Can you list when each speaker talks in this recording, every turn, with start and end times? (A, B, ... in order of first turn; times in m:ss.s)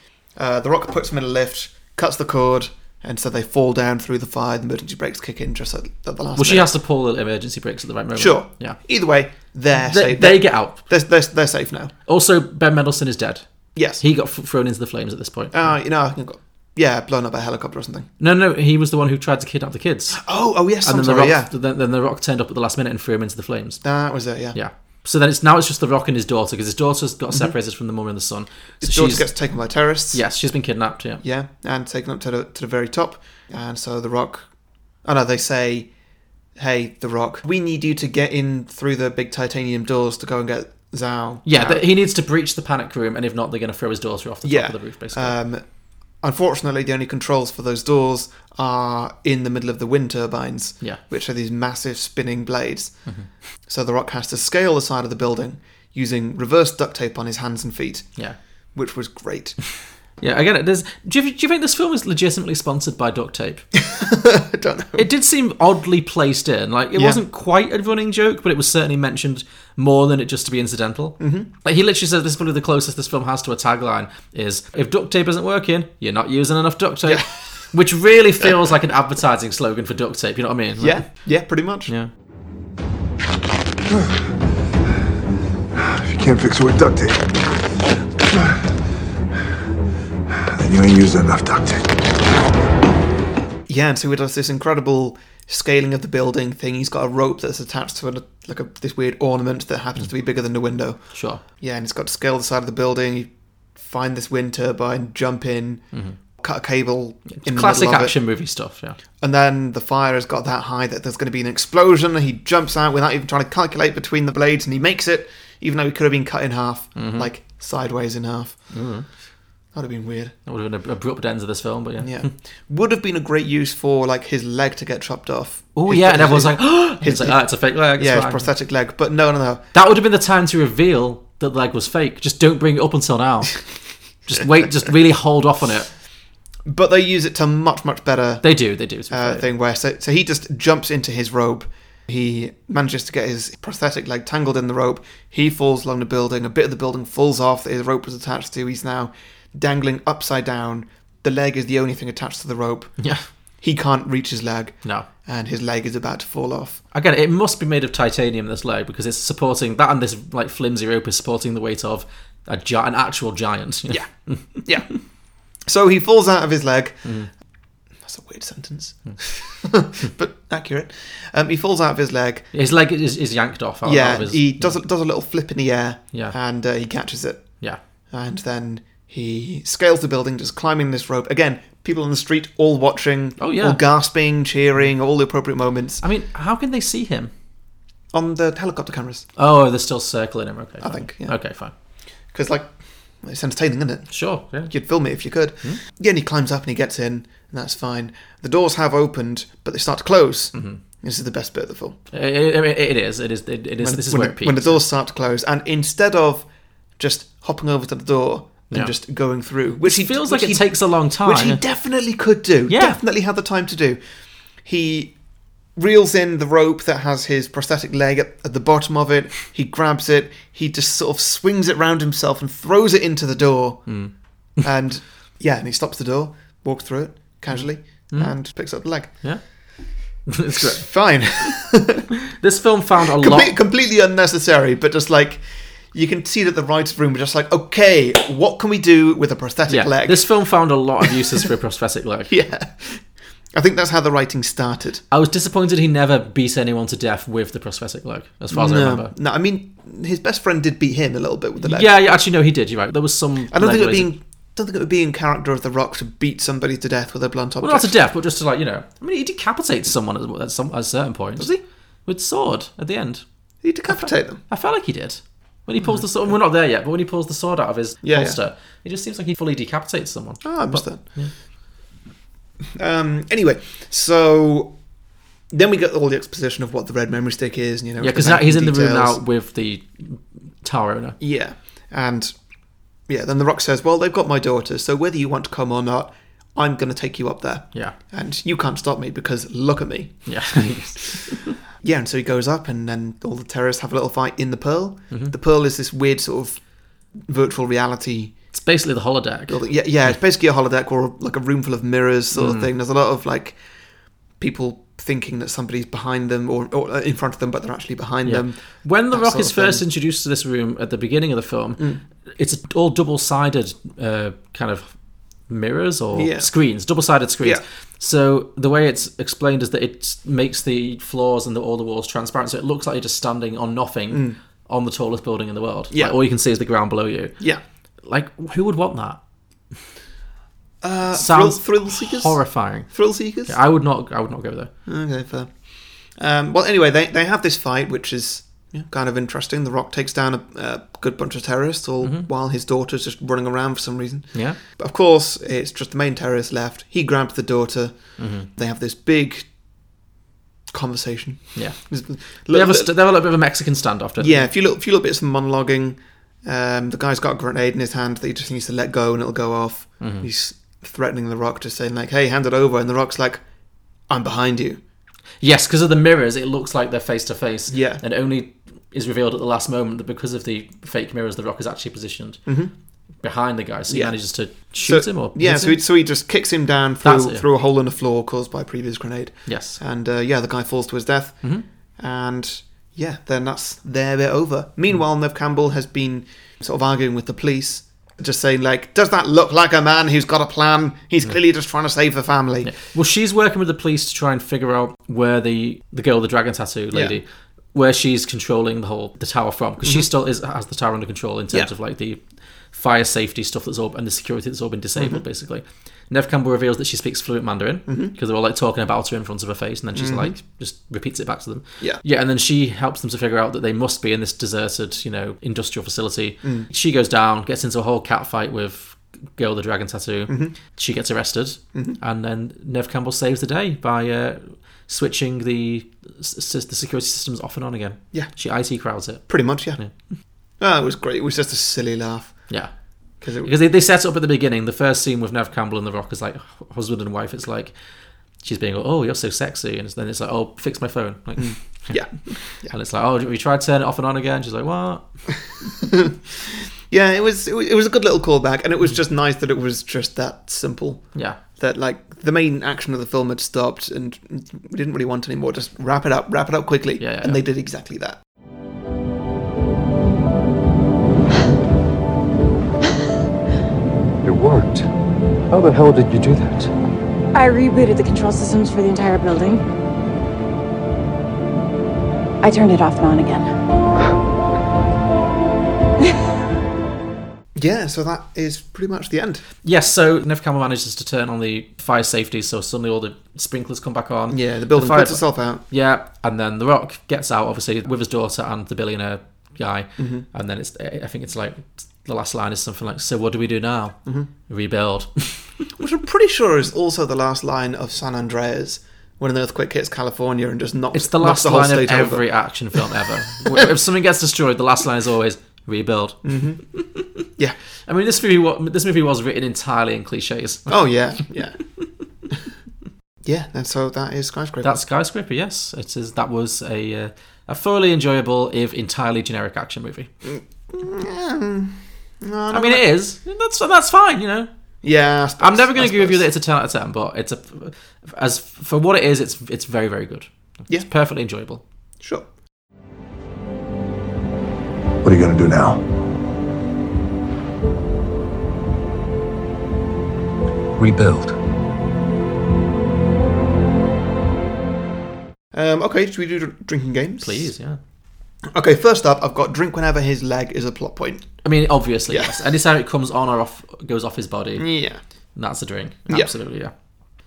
0:00.4-0:06.7 A
0:06.4-0:08.8 B
0:08.2-0:11.9 A
0:09.7-0:10.8 B
0:12.1-0:13.4 B
0:13.7-0:14.0 A
0:14.0-0:15.7 B
0:15.5-0:18.1 A
0:18.2-0:20.2 B
0:20.1-0:21.5 A
0:20.8-0:23.8 B
0:23.8-0:24.6 A
0:24.5-0:29.3 B
0:28.8-0:30.2 A
0:30.1-0:31.2 B
0:31.2-0:34.5 A
0:35.0-0:35.9 A
0:36.6-0:41.8 A
0:41.4-0:45.4 B
0:44.4-0:45.6 A
0:46.2-0:53.1 A
0:53.7-0:58.2 A
0:58.7-0:59.6 A
1:00.2-1:03.6 B
1:03.8-1:05.1 A
1:05.0-1:21.3 B
1:06.9-1:07.2 A
1:11.2-1:11.5 A
1:17.0-1:17.3 A
1:20.8-1:21.9 A
1:25.8-1:27.5 C
1:28.3-1:28.6 C
1:30.3-1:32.1 C
1:33.7-1:45.8 A
1:41.1-1:41.4 B
1:46.4-1:48.2 A
1:47.3-1:49.0 B
1:49.2-1:58.7 A
1:57.0-1:57.3 B
1:58.7-1:59.1 B
1:59.7-2:00.4 A
2:00.4-2:02.3 B
2:02.0-2:09.6 A
2:05.7-2:08.5 B
2:09.7-2:13.7 B
2:14.2-2:15.9 B
2:16.6-2:18.5 A
2:18.4-2:19.5 B
2:19.1-2:32.9 A
2:33.0-2:33.2 B
2:33.6-2:36.8 A
2:36.9-2:45.0 B
2:43.9-2:45.0 A
2:45.6-2:47.2 A
2:47.0-2:47.3 B
2:48.0-2:52.5 A
2:52.5-2:54.8 B
2:53.8-2:57.5 A
2:58.1-3:06.0 A
3:03.4-3:03.8 B
3:06.0-3:07.3 B
3:08.1-3:09.3 A
3:09.4-3:11.7 B
3:10.8-3:11.4 A
3:12.3-3:22.0 A
3:14.1-3:14.7 B
3:20.5-3:20.8 B
3:22.1-3:24.8 B
3:23.8-3:34.0 A
3:29.8-3:31.6 B
3:32.7-3:33.0 B
3:34.6-3:35.2 A
3:35.8-3:49.4 A
3:43.9-3:44.1 B
3:47.5-3:51.6 B
3:50.5-3:52.0 A
3:52.4-3:53.6 B
3:53.1-4:00.5 A
3:59.7-4:02.3 B
4:02.3-4:05.0 A
4:05.1-4:09.1 B
4:08.5-4:11.9 A
4:11.6-4:14.1 B
4:13.5-4:17.9 A
4:17.6-4:21.5 B
4:22.0-4:23.2 B
4:23.6-4:24.4 A
4:23.9-4:31.3 B
4:25.8-4:26.4 A
4:28.0-4:28.4 A
4:30.4-4:31.2 A
4:32.7-4:34.8 A
4:35.5-4:39.2 A
4:38.0-4:41.2 B
4:41.2-4:42.3 A
4:43.1-4:58.4 A
4:50.2-4:51.6 B
4:58.5-4:59.6 B
4:59.5-5:03.6 A
5:02.4-5:02.7 B
5:04.4-5:09.8 A
5:08.2-5:14.9 B
5:15.5-5:27.4 B
5:16.1-5:16.5 A
5:24.1-5:24.4 A
5:25.9-5:26.2 A
5:28.0-5:29.2 B
5:30.8-5:33.6 A
5:31.1-5:34.7 B
5:34.9-5:49.5 A
5:42.0-5:42.3 B
5:48.2-5:48.5 B
5:50.7-5:52.9 A
5:51.6-5:54.5 B
5:54.2-6:03.4 A
6:00.0-6:00.3 B
6:04.1-6:04.8 A
6:05.4-6:12.4 B
6:07.7-6:08.0 A
6:12.4-6:12.7 A
6:13.2-6:15.8 B
6:13.9-6:32.8 A
6:17.0-6:17.4 B
6:19.4-6:19.8 B
6:32.6-7:09.9 B
6:36.9-6:37.2 A
6:45.0-6:45.2 A
6:47.9-6:48.1 A
6:49.9-6:50.4 A
6:56.4-6:56.7 A
7:00.3-7:00.6 A
7:01.7-7:02.0 A
7:09.3-7:09.8 A
7:10.6-7:12.5 A
7:13.2-7:13.5 A
7:13.4-7:17.7 B
7:18.4-7:25.1 B
7:21.4-7:22.7 A
7:25.6-7:38.2 A
7:31.1-7:31.4 B
7:37.0-7:37.4 B
7:44.2-7:44.9 D
7:45.5-7:46.7 D
7:47.3-7:49.6 E
7:52.4-7:53.5 E
7:57.5-7:59.4 A
7:59.6-8:15.5 B
8:04.3-8:05.6 A
8:10.0-8:10.2 A
8:15.8-8:23.6 A
8:20.9-8:26.8 B
8:26.2-8:26.6 A
8:27.9-8:30.8 B
8:30.7-8:31.6 A
8:33.2-8:34.8 A
8:34.6-8:40.1 B
8:40.2-8:42.9 A
8:42.5-8:44.5 B
8:44.8-8:46.3 A
8:45.4-8:51.6 B
8:52.0-8:52.3 A
8:55.0-8:55.8 C
9:00.8-9:01.3 C
9:00.8-9:01.3 D
9:05.5-9:07.5 A
9:07.2-9:07.8 B
9:08.4-9:11.4 A
9:11.4-9:14.7 B
9:12.1-9:12.4 A
9:14.6-9:15.0 A
9:15.4-9:16.7 B